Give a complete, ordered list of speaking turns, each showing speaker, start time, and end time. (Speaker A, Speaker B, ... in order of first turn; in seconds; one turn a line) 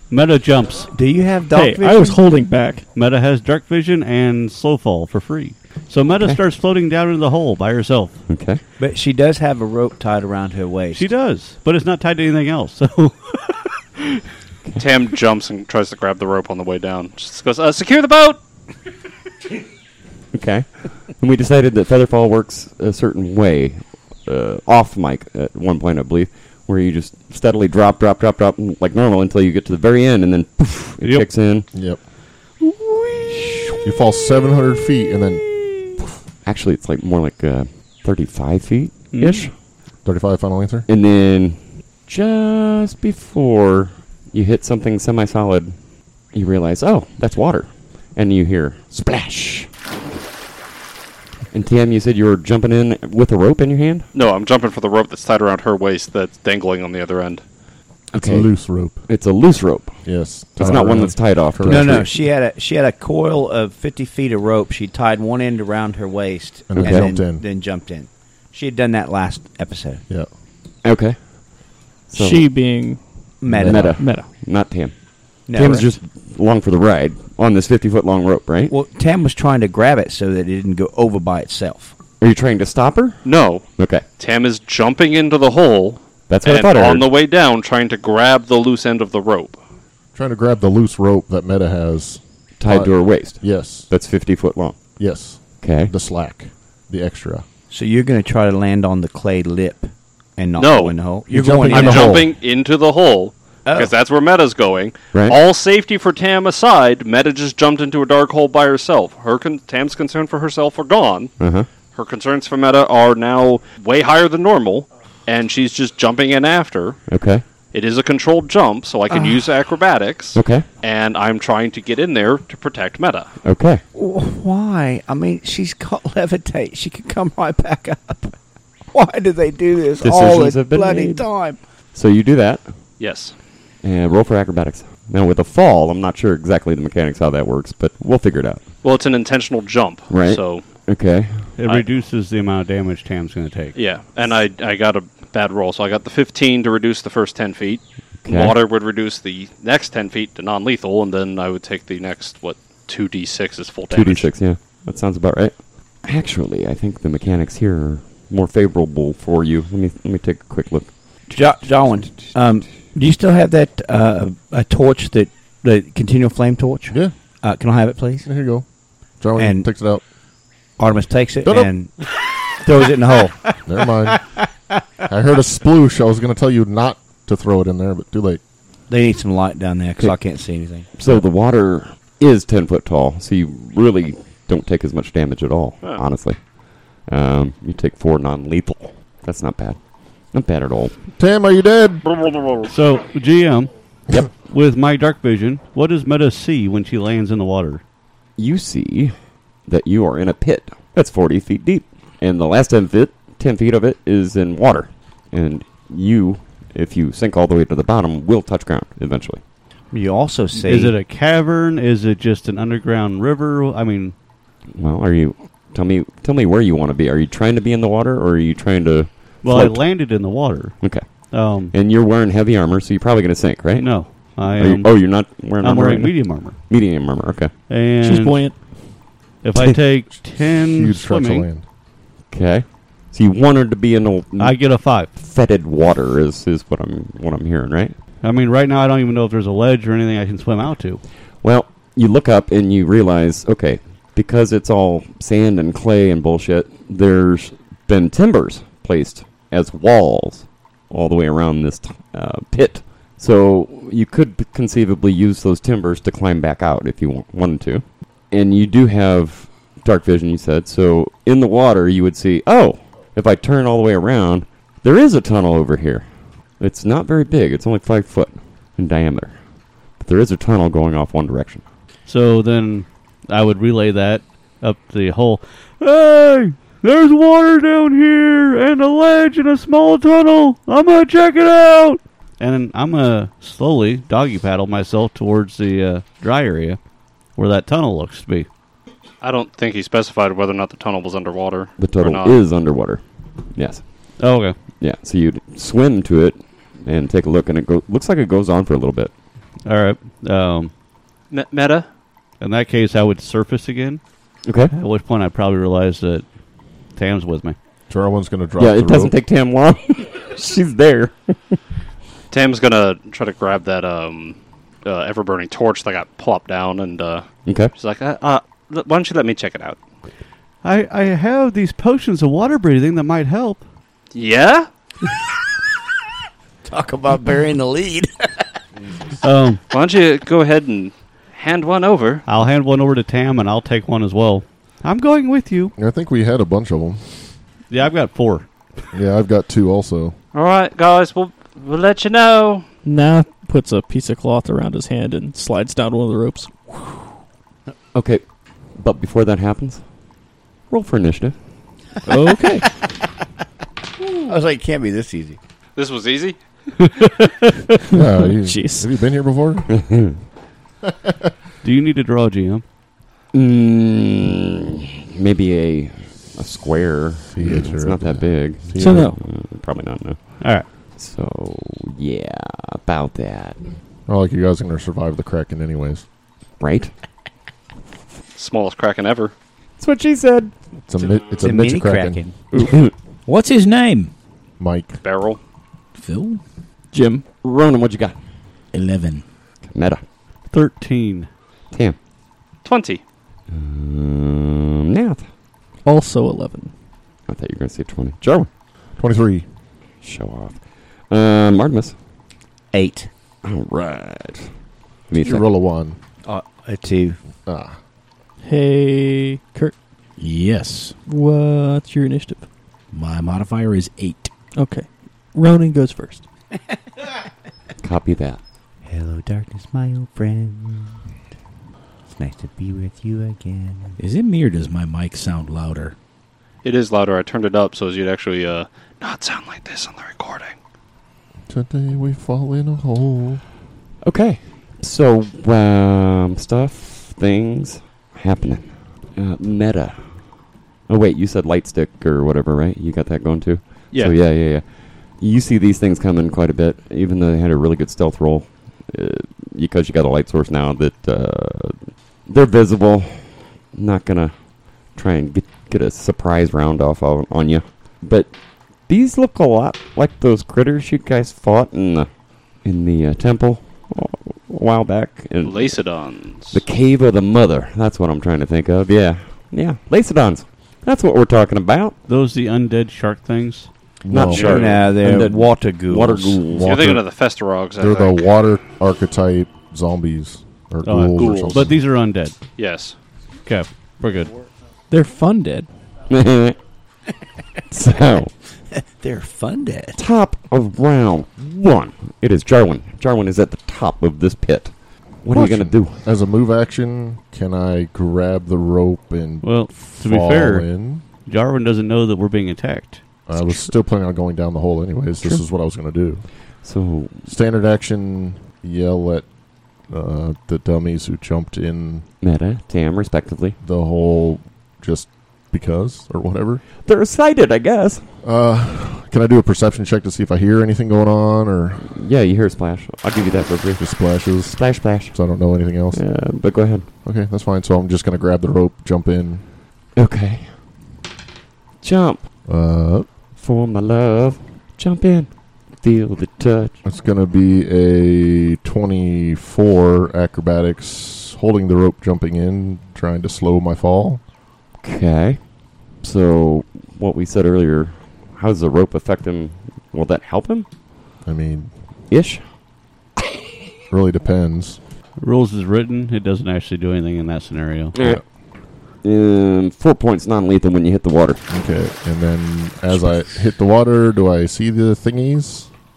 Speaker A: 0.1-0.9
Speaker B: 0.9-2.2
Speaker C: 1.5-2.8
Speaker A: 2.9-8.2
Speaker D: 8.3-8.6
Speaker B: 8.8-11.1
Speaker A: 10.9-13.7
Speaker E: 14.8-18.4
Speaker D: 20.3-31.7
Speaker A: 31.0-31.5
Speaker F: 31.7-32.0
Speaker A: 32.6-33.8
Speaker F: 33.8-35.5
Speaker D: 36.4-39.5
Speaker A: 39.1-39.5
Speaker F: 40.0-40.9
Speaker D: 40.9-45.8
Speaker D: 46.3-49.7
Speaker D: 51.5-54.1
Speaker E: 54.1-57.4
Speaker D: 58.1-62.1
Speaker F: 58.1-59.1
Speaker F: 60.0-62.1
Speaker B: 61.6-70.0
Speaker F: 66.7-67.4
Speaker D: 66.8-67.1
Speaker D: 70.8-71.3
Speaker D: 72.1-72.6
Speaker C: 72.1-74.3
Speaker B: 73.4-74.1
Speaker F: 73.5-74.0
Speaker D: 73.6-78.7
Speaker B: 75.5-75.9
Speaker B: 78.7-81.9
Speaker D: 82.2-84.0
Speaker E: 83.2-89.6
Speaker D: 86.3-87.1
Speaker F: 90.1-93.9
Speaker D: 92.6-94.8
Speaker F: 95.0-97.4
Speaker D: 95.6-95.9
Speaker B: 97.7-102.2
Speaker E: 100.6-101.0
Speaker F: 101.3-102.3
Speaker E: 101.7-111.3
Speaker B: 103.7-103.9
Speaker D: 105.1-105.4
Speaker D: 111.4-111.7
Speaker E: 111.9-117.0
Speaker D: 117.1-117.4
Speaker E: 117.7-123.3
Speaker B: 119.1-119.4
Speaker D: 120.3-120.6
Speaker D: 123.4-123.8
Speaker B: 123.9-128.3
Speaker B: 128.9-131.6
Speaker D: 130.0-131.3
Speaker D: 131.8-132.7
Speaker E: 133.0-133.3
Speaker D: 133.8-138.6
Speaker E: 138.8-140.7
Speaker D: 140.1-141.6
Speaker A: 141.6-143.8
Speaker E: 143.7-154.3
Speaker D: 148.2-148.6
Speaker D: 153.9-162.6
Speaker B: 161.3-168.3
Speaker F: 168.2-168.7
Speaker F: 169.2-170.0
Speaker B: 169.4-169.7
Speaker B: 170.8-173.6
Speaker F: 171.4-171.7
Speaker F: 173.6-174.2
Speaker F: 175.1-178.4
Speaker B: 178.9-180.9
Speaker D: 180.9-190.9
Speaker F: 191.2-192.1
Speaker E: 192.0-192.7
Speaker A: 192.7-193.7
Speaker A: 194.3-197.8
Speaker D: 198.4-199.1
Speaker D: 199.7-209.4
Speaker B: 209.9-211.0
Speaker A: 210.5-214.1
Speaker D: 214.7-227.5
Speaker A: 219.4-221.7
Speaker A: 223.7-226.7
Speaker A: 227.7-228.7
Speaker C: 228.0-228.7
Speaker A: 229.4-231.5
Speaker F: 230.3-231.6
Speaker D: 232.3-237.9
Speaker A: 234.3-235.1
Speaker A: 238.2-241.0
Speaker D: 241.4-266.1
Speaker D: 266.6-269.4
Speaker D: 269.9-271.6
Speaker A: 272.1-286.8
Speaker A: 287.3-288.5
Speaker E: 289.2-292.4
Speaker D: 291.8-293.0
Speaker D: 293.5-299.1
Speaker A: 294.2-294.6
Speaker A: 299.6-300.7
Speaker E: 301.3-301.9
Speaker A: 302.4-304.0
Speaker D: 304.4-304.7
Speaker A: 304.7-306.2
Speaker A: 306.9-307.6
Speaker F: 307.9-309.1
Speaker D: 308.6-311.6
Speaker E: 312.3-319.8
Speaker D: 317.4-317.7
Speaker A: 320.6-323.6
Speaker E: 324.1-324.7
Speaker B: 326.6-328.4
Speaker A: 329.2-329.6
Speaker E: 329.7-332.2
Speaker A: 332.2-335.7
Speaker F: 335.8-337.0
Speaker A: 337.7-338.5
Speaker F: 338.9-340.1
Speaker E: 340.3-342.6
Speaker C: 342.8-346.9
Speaker D: 347.9-349.9
Speaker D: 350.7-351.4
Speaker C: 352.1-352.6
Speaker B: 354.0-355.4
Speaker E: 355.8-356.4
Speaker A: 356.8-357.3
Speaker C: 357.9-358.9
Speaker F: 357.9-359.7
Speaker D: 359.7-360.1
Speaker A: 361.6-362.6
Speaker D: 363.3-373.6
Speaker F: 367.2-369.2
Speaker C: 368.8-369.2
Speaker A: 370.4-370.7
Speaker F: 374.1-376.1
Speaker D: 376.6-376.9
Speaker E: 378.4-379.3
Speaker D: 379.8-380.5
Speaker F: 380.9-382.2
Speaker B: 381.4-382.4
Speaker D: 382.5-382.9
Speaker G: 383.2-384.1
Speaker F: 384.6-385.0
Speaker E: 385.0-385.4
Speaker G: 385.9-386.4
Speaker C: 386.9-387.2
Speaker D: 387.4-388.1
Speaker G: 388.7-389.2
Speaker D: 389.6-390.0
Speaker A: 390.5-391.3
Speaker D: 391.7-392.0
Speaker E: 392.6-393.0
Speaker D: 393.5-395.2
Speaker C: 395.8-396.7
Speaker D: 397.3-398.5
Speaker F: 399.0-399.4
Speaker D: 400.0-401.9
Speaker B: 402.7-403.1
Speaker D: 403.4-404.5
Speaker D: 405.1-405.4
Speaker F: 405.2-406.0
Speaker B: 406.2-407.2
Speaker F: 407.4-407.8
Speaker C: 408.4-409.7
Speaker G: 410.2-410.9
Speaker C: 411.1-412.4
Speaker G: 412.9-414.3
Speaker C: 414.5-416.2
Speaker D: 417.8-418.4
Speaker B: 418.8-421.0
Speaker B: 422.1-424.0
Speaker G: 424.0-425.9
Speaker E: 426.6-430.5
Speaker F: 431.5-433.4
Speaker D: 434.0-440.2
Speaker D: 440.9-454.3
Speaker D: 454.9-458.3
Speaker D: 458.8-462.1
Speaker D: 462.6-465.8
Speaker E: 465.4-466.6
Speaker D: 466.5-471.9
Speaker A: 472.1-473.7
Speaker F: 474.0-474.6
Speaker D: 474.1-476.9
Speaker E: 474.3-474.7
Speaker B: 474.3-476.4
Speaker F: 476.5-477.1
Speaker E: 476.6-478.2
Speaker F: 477.8-481.8
Speaker A: 480.8-482.4
Speaker E: 481.1-481.7
Speaker E: 482.6-482.9
Speaker A: 483.4-484.3
Speaker C: 484.9-485.7
Speaker D: 486.1-486.6
Speaker D: 487.7-488.3
Speaker B: 488.7-490.0
Speaker D: 490.0-496.0
Speaker F: 495.3-501.0
Speaker A: 499.4-500.7
Speaker A: 501.2-503.0
Speaker F: 503.3-506.2
Speaker D: 506.6-507.2
Speaker F: 507.2-509.3
Speaker F: 509.9-512.0
Speaker D: 512.2-513.6
Speaker F: 513.6-516.6
Speaker D: 516.8-518.0
Speaker F: 518.2-521.9
Speaker D: 521.8-525.2
Speaker F: 523.8-526.0
Speaker D: 525.9-526.9
Speaker F: 527.0-529.4
Speaker D: 530.0-530.5
Speaker D: 531.8-532.2
Speaker F: 532.5-533.1
Speaker D: 533.4-536.8
Speaker F: 536.8-544.2
Speaker D: 544.8-545.5
Speaker D: 546.0-550.6
Speaker F: 551.2-551.7
Speaker D: 552.1-552.4
Speaker F: 553.9-554.8
Speaker A: 555.2-557.9
Speaker D: 557.9-558.2
Speaker F: 558.0-558.2
Speaker D: 559.0-561.5
Speaker F: 561.5-565.7